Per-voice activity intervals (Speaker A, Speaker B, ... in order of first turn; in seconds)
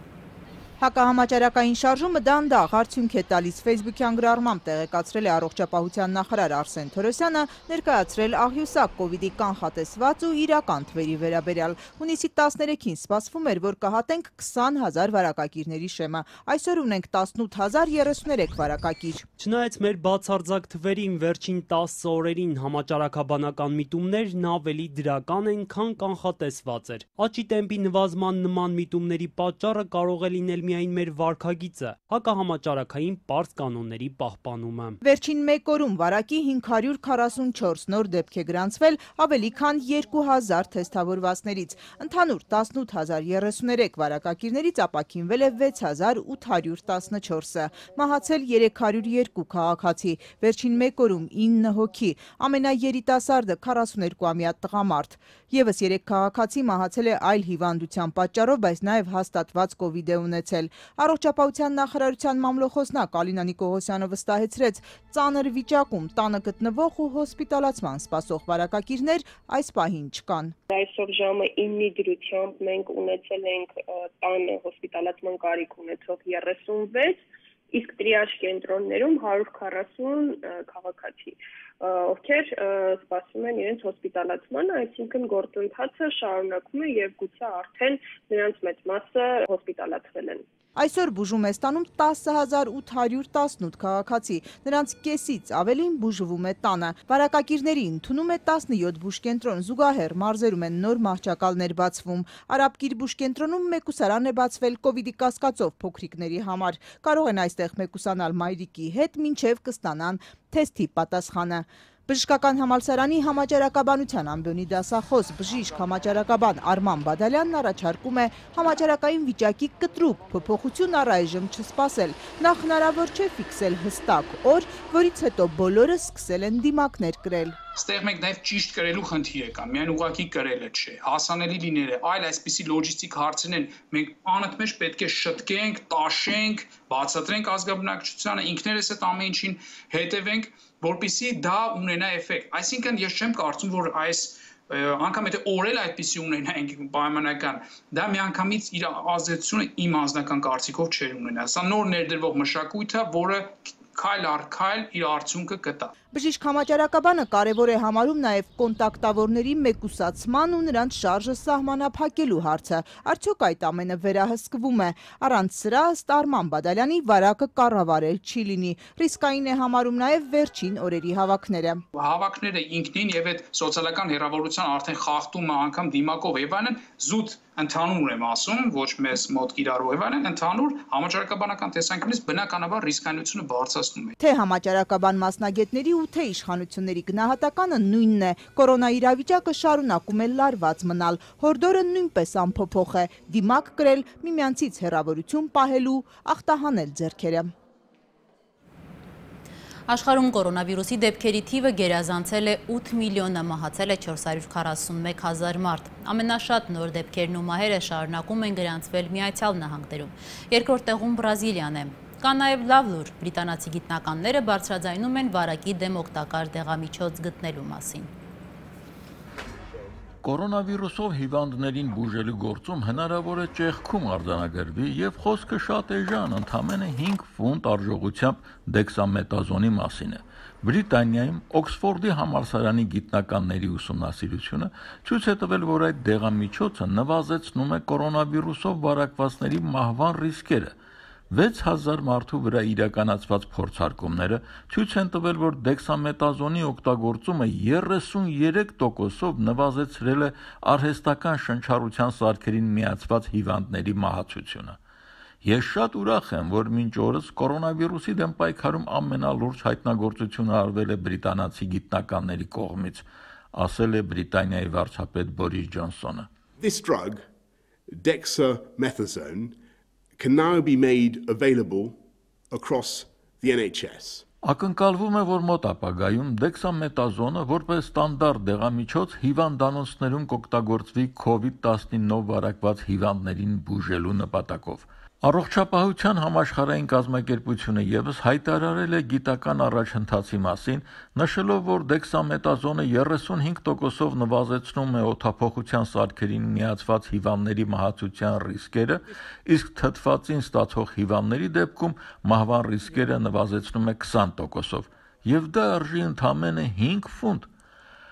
Speaker A: 0.8-19.2, 35.0-70.5, 90.8-127.6, 156.1-171.8, 184.2-197.5
Speaker B: 19.4-35.0
Speaker C: 70.7-90.4
Speaker D: 127.8-155.9, 171.9-184.2
Speaker E: 199.9-218.1
Speaker F: 220.2-240.7, 241.3-254.8, 255.4-266.3, 274.4-307.5
Speaker G: 266.6-267.3, 267.9-269.6, 270.2-272.0, 272.5-274.2